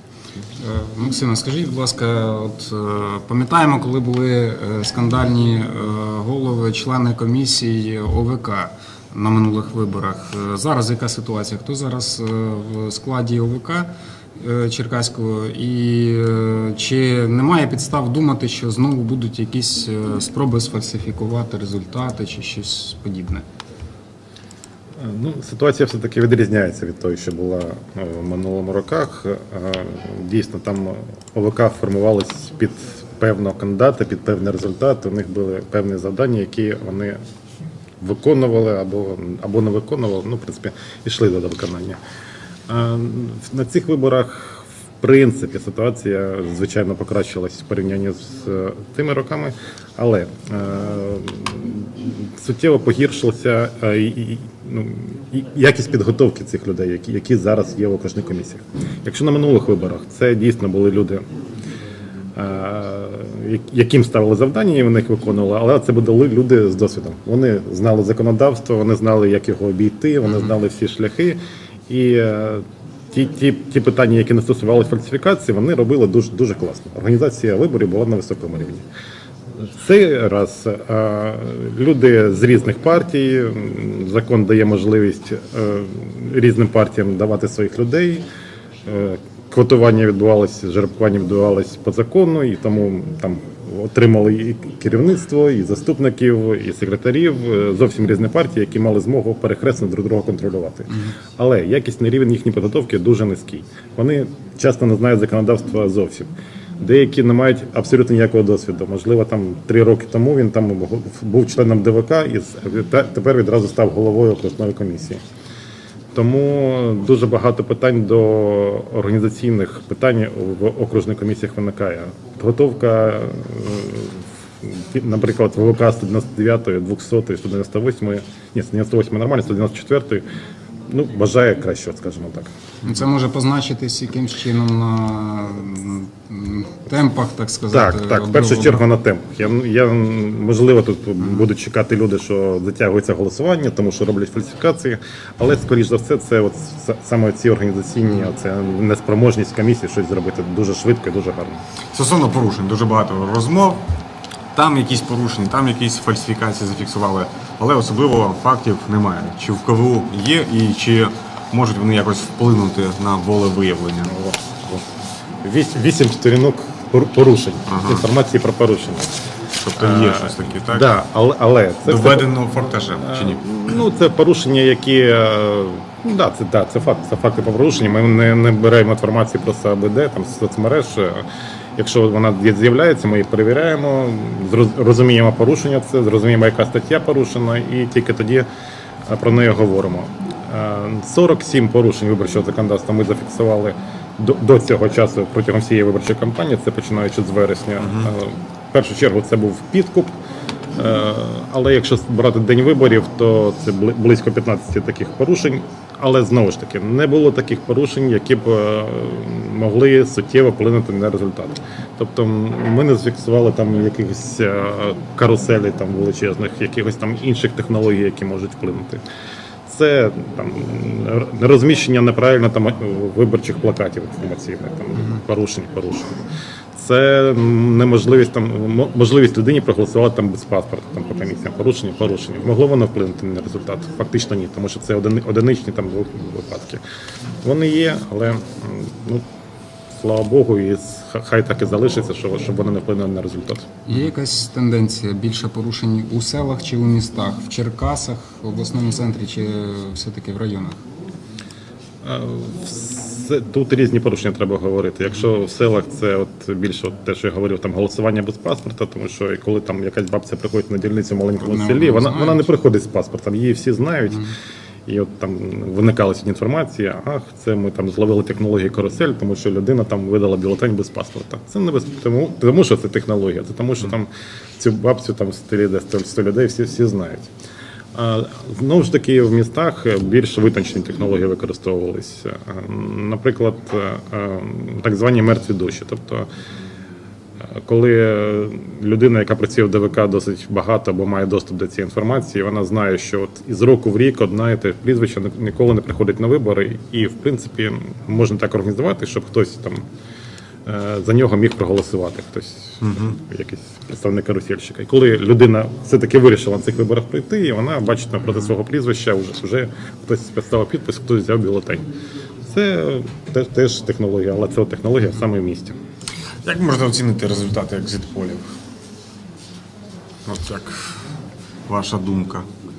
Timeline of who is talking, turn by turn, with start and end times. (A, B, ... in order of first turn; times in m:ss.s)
0:00.6-0:23.4 A
0:25.0-0:37.2 B
0:38.0-0:42.0 B
0:42.7-1:01.2 B
1:02.3-1:18.8 B
1:19.6-1:28.2 B
1:28.8-1:55.2 B
1:56.1-2:10.2 B
2:10.9-2:12.5 B
2:12.8-2:18.8 A
2:17.7-2:31.6 B
2:31.9-2:33.9 C
2:34.5-2:44.2 C
2:44.1-2:44.8 B
2:45.4-2:49.1 B
2:47.7-2:48.1 C
2:49.6-2:50.9 C
2:49.8-2:52.3 B
2:51.8-2:53.8 C
2:53.0-3:01.2 B
3:01.8-3:08.5 B
3:09.1-3:20.2 B
3:17.8-3:18.1 C
3:20.7-3:39.0 B
3:39.7-3:46.2 B
3:46.7-3:56.8 B
3:57.4-3:59.2 B
3:59.9-4:03.7 B
4:03.8-4:10.8 A
4:12.0-4:24.3 B
4:21.4-4:22.5 A
4:24.9-4:37.3 B
4:37.9-4:46.3 B
4:47.4-4:59.8 B
5:00.6-5:11.9 B
5:02.8-5:03.2 C
5:12.4-5:15.8 B
5:16.4-5:18.6 C
5:20.2-5:21.1 C
5:21.7-5:22.5 C